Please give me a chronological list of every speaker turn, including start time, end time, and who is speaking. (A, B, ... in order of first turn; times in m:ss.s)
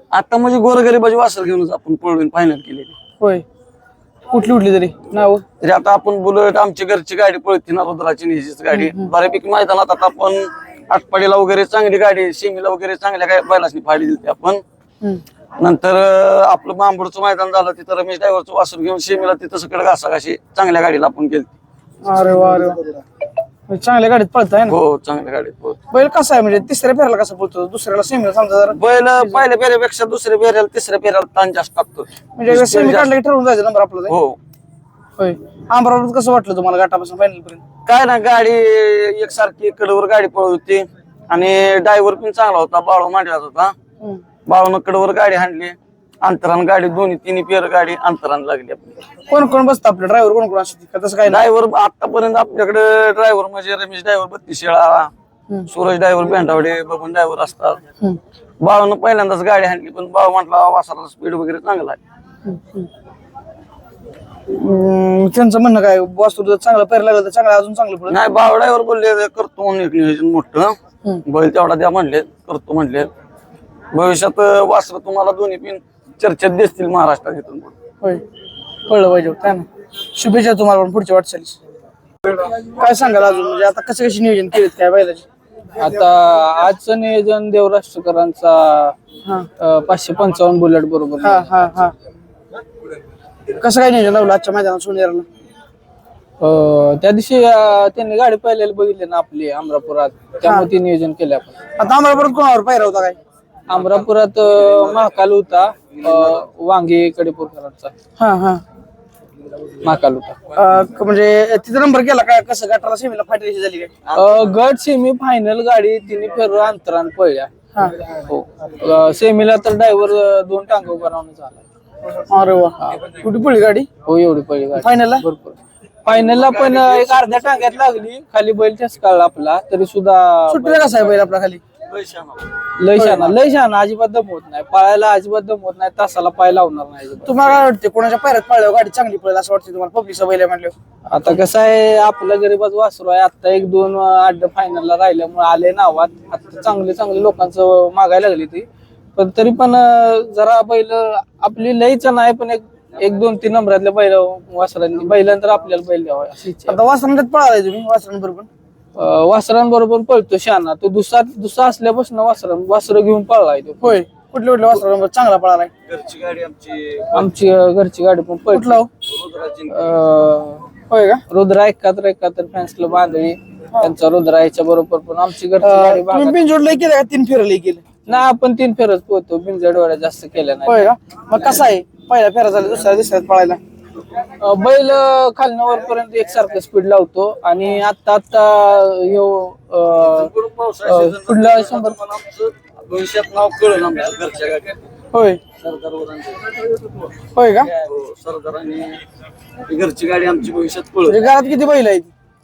0:00.1-0:02.9 A
0:03.2-0:03.4 B
0:04.3-0:05.4 B
0:05.6-0:14.6 A
0:08.7-0:09.1 B
0:15.6-0:21.5 A
0:22.0-0:22.8 B
0:23.7-0:24.8 B
0:24.6-0:25.8 A
0:25.9-0:29.4 B
0:28.7-0:33.1 A
0:32.4-0:34.1 B
0:34.1-0:34.4 A
0:35.2-0:37.6 B
0:37.8-0:43.7 A
0:44.5-0:48.9 A
0:49.3-0:51.4 B
0:51.3-0:55.1 A
0:55.7-0:57.8 A
0:58.6-1:02.0 A
1:02.4-1:02.9 B
1:04.5-1:08.2 B
1:08.1-1:13.1 A
1:13.9-1:17.7 A
1:18.9-1:21.6 B
1:22.3-1:25.2 B
1:25.8-1:28.9 C
1:29.6-1:31.4 C
1:31.2-1:31.9 B
1:33.6-1:35.2 B
1:36.4-1:41.5 C
1:40.4-1:40.7 B
1:41.8-1:43.2 B
1:43.7-1:47.9 C
1:43.7-1:44.0 A
1:48.2-1:48.6 B
1:49.8-1:50.4 C
1:50.5-1:53.9 B
1:54.0-1:54.5 A
1:54.1-1:57.5 C
1:58.2-2:01.6 C
2:02.3-2:03.9 B
2:04.0-2:11.2 C
2:04.7-2:05.2 B
2:06.1-2:07.8 A
2:10.5-2:11.6 B
2:11.9-2:12.5 A
2:12.8-2:17.5 C
2:12.9-2:13.3 B
2:17.2-2:20.7 B
2:21.1-2:28.6 C
2:29.2-2:36.8 C
2:36.7-2:38.5 B
2:39.0-2:44.0 C
2:43.8-2:45.7 B
2:45.9-2:47.2 A
2:47.1-2:48.8 C
2:48.5-2:48.9 B
2:49.0-2:49.9 A
2:49.7-2:50.6 C
2:50.9-2:51.2 B
2:51.3-2:56.4 C
2:55.6-2:57.9 B
2:58.0-3:00.9 C
3:00.6-3:03.6 B
3:04.4-3:10.3 C
3:10.0-3:14.8 A
3:10.8-3:12.0 C
3:15.1-3:15.4 B
3:15.6-3:16.6 A
3:17.3-3:17.7 B
3:17.8-3:19.0 A
3:19.6-3:21.2 A
3:21.1-3:22.1 B